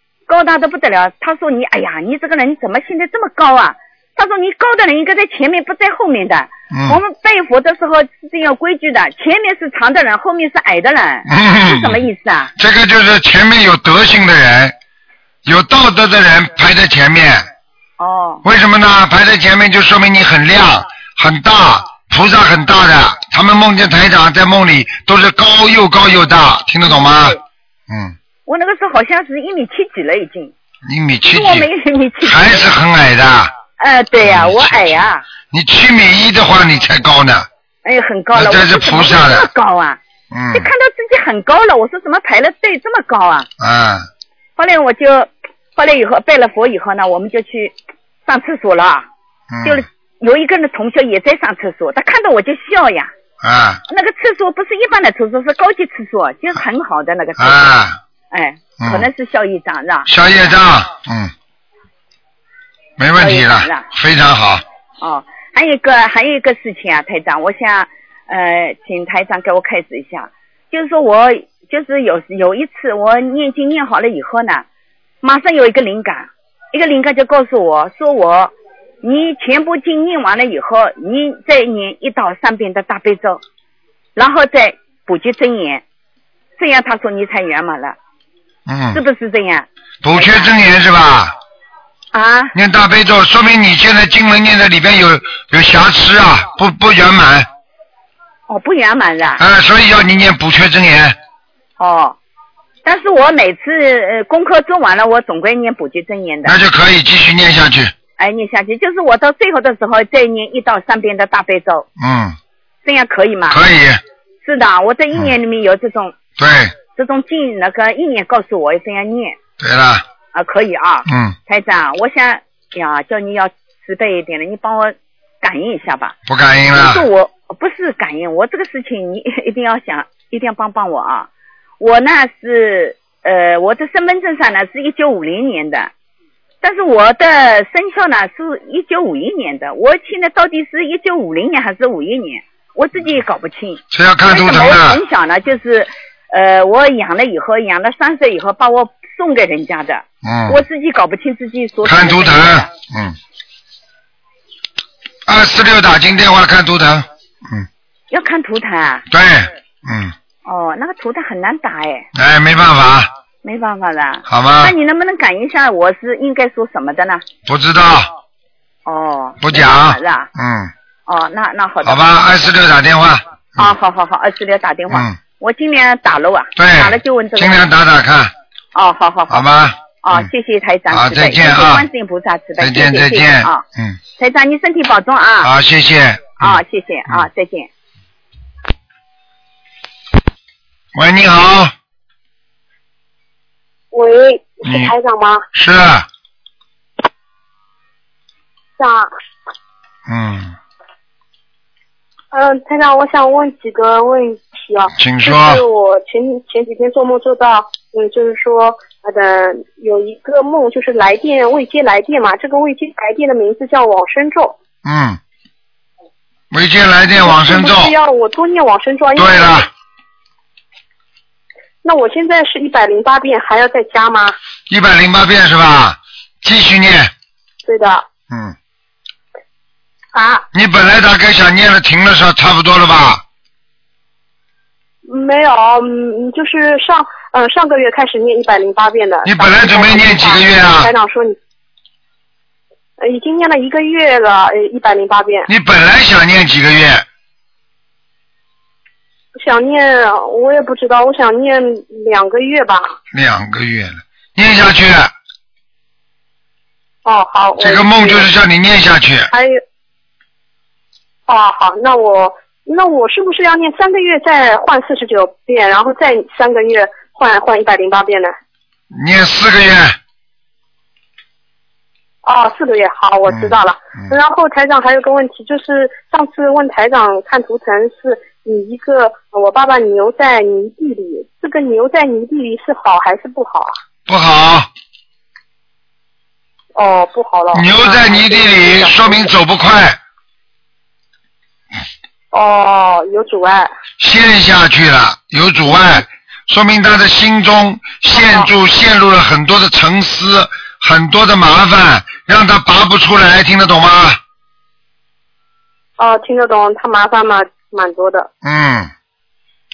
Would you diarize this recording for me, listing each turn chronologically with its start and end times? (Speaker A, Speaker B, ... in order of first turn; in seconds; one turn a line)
Speaker A: 0.3-12.5
Speaker B: 6.7-7.0
Speaker B: 11.3-12.0
Speaker B: 12.6-14.7
Speaker B: 15.4-17.4
Speaker A: 18.0-18.4
Speaker B: 18.4-27.4
Speaker A: 26.8-27.4
Speaker B: 27.9-28.1
Speaker A: 28.4-30.5
Speaker B: 30.9-31.7
Speaker A: 31.2-32.7
Speaker B: 32.2-33.5
Speaker A: 33.8-35.2
Speaker B: 34.2-37.5
Speaker A: 37.8-40.0
Speaker B: 38.3-39.5
Speaker B: 40.3-40.7
Speaker A: 40.5-43.5
Speaker B: 43.6-44.0
Speaker A: 44.6-47.7
Speaker A: 48.2-49.0
Speaker B: 49.5-49.9
Speaker A: 49.6-53.1
Speaker B: 53.4-53.8
Speaker A: 53.9-57.7
Speaker B: 57.4-58.0
Speaker A: 58.3-60.1
Speaker B: 58.8-59.1
Speaker B: 60.1-61.3
Speaker B: 63.0-64.6
Speaker A: 63.2-63.9
Speaker A: 65.0-74.6
Speaker A: 75.2-83.4
Speaker A: 84.2-85.8
Speaker A: 86.6-88.0
Speaker B: 88.7-89.0
Speaker A: 88.9-90.5
Speaker B: 90.0-91.3
Speaker A: 92.1-92.5
Speaker B: 92.5-97.5
Speaker A: 98.5-99.4
Speaker B: 99.4-101.2
Speaker A: 101.8-102.2
Speaker A: 102.8-106.6
Speaker B: 106.4-107.9
Speaker A: 108.2-111.8
Speaker B: 112.0-112.4
Speaker A: 112.8-113.6
Speaker B: 113.5-114.0
Speaker A: 114.4-116.2
Speaker B: 116.4-116.7
Speaker A: 116.9-119.4
Speaker B: 119.6-120.0
Speaker A: 120.3-126.2
Speaker B: 121.1-121.3
Speaker B: 126.3-127.0
Speaker A: 126.7-131.3
Speaker A: 131.8-135.9
Speaker A: 136.6-152.7
Speaker B: 143.9-145.0
Speaker B: 150.2-150.6
Speaker B: 151.8-153.2
Speaker B: 155.3-157.7
Speaker A: 158.1-159.0
Speaker B: 159.1-160.1
Speaker A: 160.4-162.1
Speaker B: 162.1-163.1
Speaker A: 163.4-167.2
Speaker B: 164.3-164.7
Speaker B: 167.4-168.1
Speaker A: 168.8-170.3
Speaker B: 169.4-170.7
Speaker A: 171.1-172.3
Speaker B: 171.8-173.7
Speaker A: 173.6-177.7
Speaker B: 174.9-175.2
Speaker B: 176.6-178.3
Speaker A: 178.7-183.6
Speaker B: 179.3-180.3
Speaker B: 180.9-181.9
Speaker B: 182.6-184.0
Speaker A: 184.2-185.5
Speaker B: 185.4-187.3
Speaker A: 186.4-187.7
Speaker B: 190.9-191.7
Speaker C: 193.9-195.4
Speaker B: 194.6-194.9
Speaker B: 195.5-196.1
Speaker C: 198.8-199.1
Speaker B: 200.1-200.6
Speaker C: 202.3-214.6
Speaker B: 205.0-205.6
Speaker B: 214.8-215.2
Speaker B: 216.5-217.9
Speaker C: 217.2-219.7
Speaker B: 219.2-219.7
Speaker C: 221.8-224.3
Speaker B: 224.7-227.1
Speaker C: 227.7-228.0
Speaker B: 228.3-228.5
Speaker C: 230.1-230.4
Speaker B: 230.5-233.2
Speaker C: 235.1-241.4
Speaker B: 239.2-240.9
Speaker C: 243.0-245.5
Speaker B: 245.5-247.1
Speaker C: 249.4-252.9
Speaker B: 253.1-255.1
Speaker C: 257.0-258.3
Speaker B: 257.6-259.3
Speaker C: 259.3-259.6
Speaker C: 261.3-268.3
Speaker B: 268.9-269.9
Speaker C: 272.2-283.8
Speaker B: 273.3-274.1
Speaker B: 284.1-284.7
Speaker C: 286.7-289.3
Speaker B: 287.5-290.0
Speaker C: 292.3-293.7
Speaker B: 294.0-304.2
Speaker C: 298.1-298.5
Speaker C: 306.0-308.3
Speaker B: 308.4-308.9